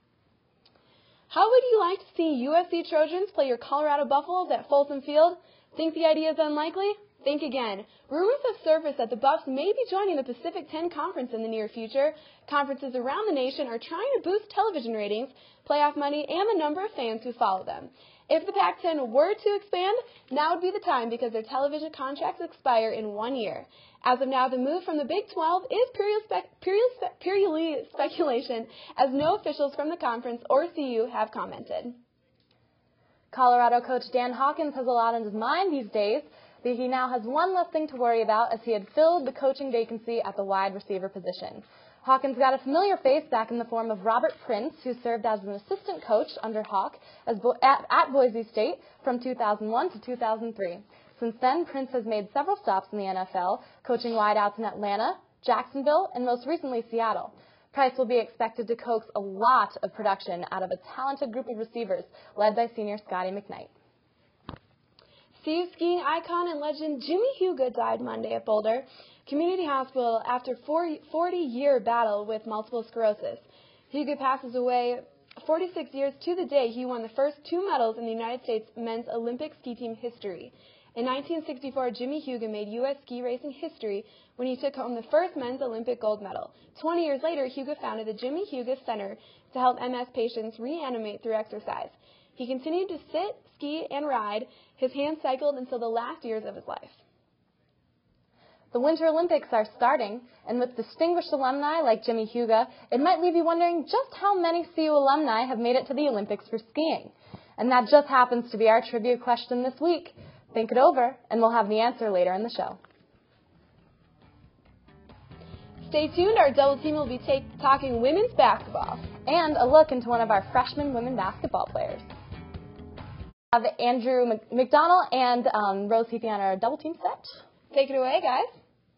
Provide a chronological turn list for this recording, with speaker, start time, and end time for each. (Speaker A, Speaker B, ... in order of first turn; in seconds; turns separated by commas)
Speaker A: 1.3-32.0, Speaker B: 33.3-63.7, Speaker A: 65.4-97.0, Speaker B: 98.7-112.8, Speaker A: 115.8-119.1, Speaker B: 119.2-122.0, Speaker B: 123.5-127.4, Speaker A: 127.7-128.5